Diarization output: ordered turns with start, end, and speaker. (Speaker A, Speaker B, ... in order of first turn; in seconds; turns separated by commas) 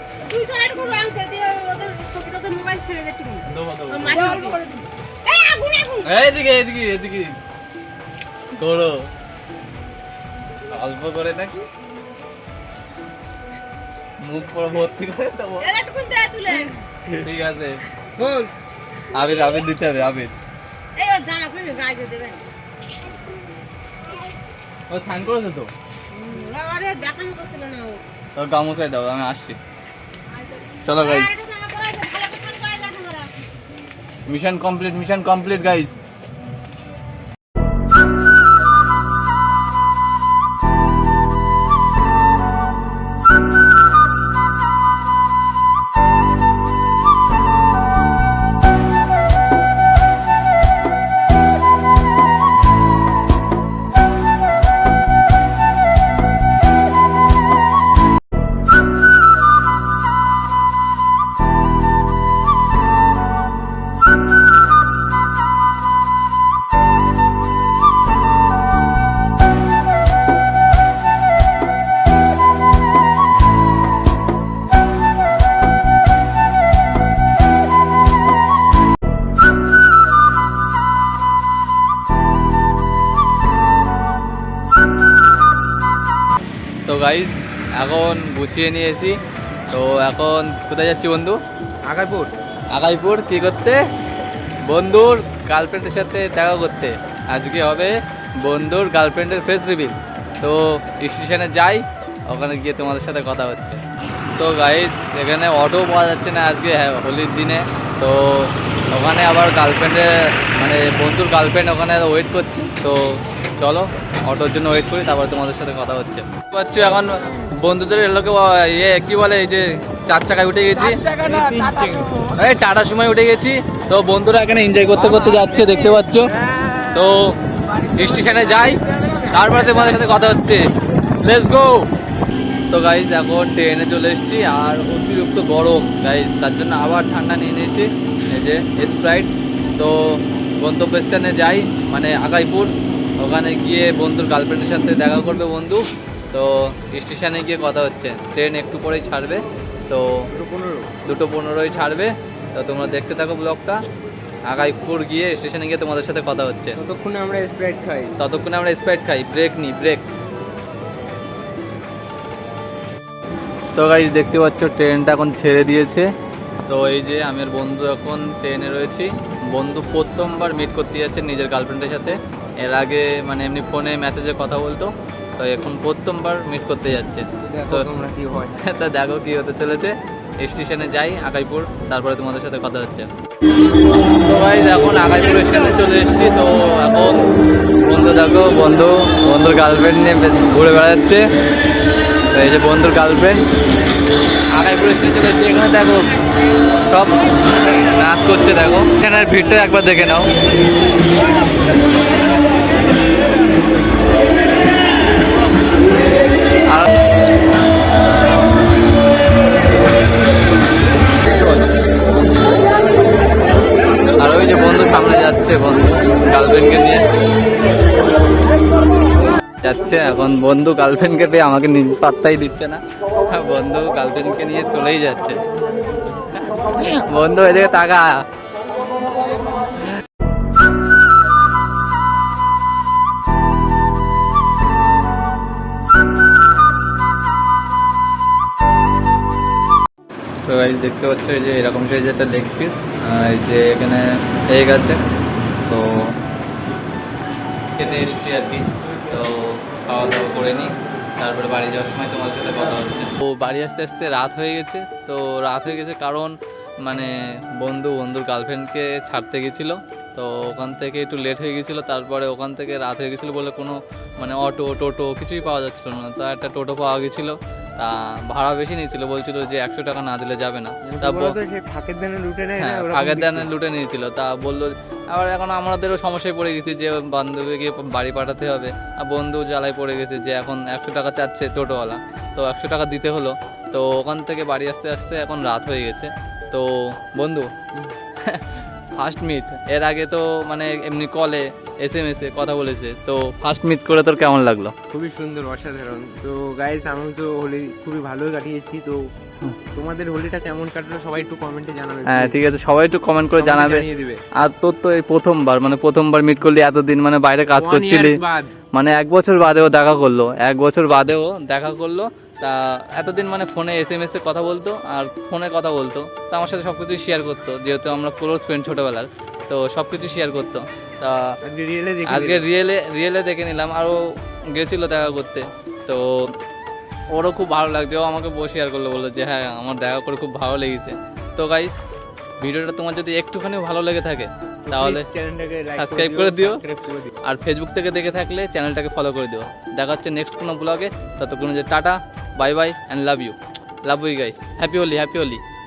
Speaker A: 0.2-6.1, Speaker B: 3.5-4.4, Speaker B: 6.0-7.4, Speaker B: 8.6-9.1, Speaker B: 10.7-11.6, Speaker B: 14.2-15.8, Speaker A: 15.6-16.8, Speaker B: 17.1-17.8, Speaker A: 18.2-18.5, Speaker B: 19.1-20.4, Speaker A: 21.0-22.4, Speaker B: 24.9-25.7, Speaker A: 26.1-28.0, Speaker B: 28.4-29.6, Speaker B: 30.8-31.4, Speaker A: 31.0-33.3, Speaker B: 34.3-36.0, Speaker B: 86.9-89.2, Speaker B: 89.7-91.4, Speaker C: 91.8-92.3, Speaker B: 92.7-93.8, Speaker B: 94.6-103.8, Speaker B: 104.4-121.2, Speaker C: 121.1-122.1, Speaker B: 122.2-131.9, Speaker B: 132.7-150.2, Speaker C: 150.3-150.9, Speaker B: 151.1-153.8, Speaker B: 154.5-156.8, Speaker C: 156.8-158.1, Speaker B: 158.2-160.0, Speaker B: 163.8-166.1, Speaker B: 166.7-177.9, Speaker C: 177.4-178.6, Speaker B: 178.6-183.1, Speaker B: 184.2-187.2, Speaker B: 187.8-191.3, Speaker B: 192.3-193.5, Speaker B: 194.5-196.2, Speaker B: 196.9-200.3, Speaker B: 206.7-206.9, Speaker B: 214.2-217.1, Speaker B: 219.6-225.4, Speaker B: 226.3-228.2, Speaker B: 240.5-245.0, Speaker B: 245.7-246.1, Speaker B: 247.8-271.4, Speaker C: 270.9-273.5, Speaker B: 272.6-287.5, Speaker B: 288.2-294.7, Speaker C: 294.9-299.0, Speaker C: 299.7-302.4, Speaker B: 302.1-303.8, Speaker C: 303.4-304.2, Speaker B: 304.4-308.2, Speaker C: 307.6-308.6, Speaker B: 308.7-321.4, Speaker C: 321.4-322.5, Speaker B: 322.1-324.0, Speaker B: 324.5-326.3, Speaker B: 327.1-331.8, Speaker B: 332.4-335.1, Speaker C: 334.7-337.2, Speaker B: 335.8-336.6, Speaker B: 337.2-345.4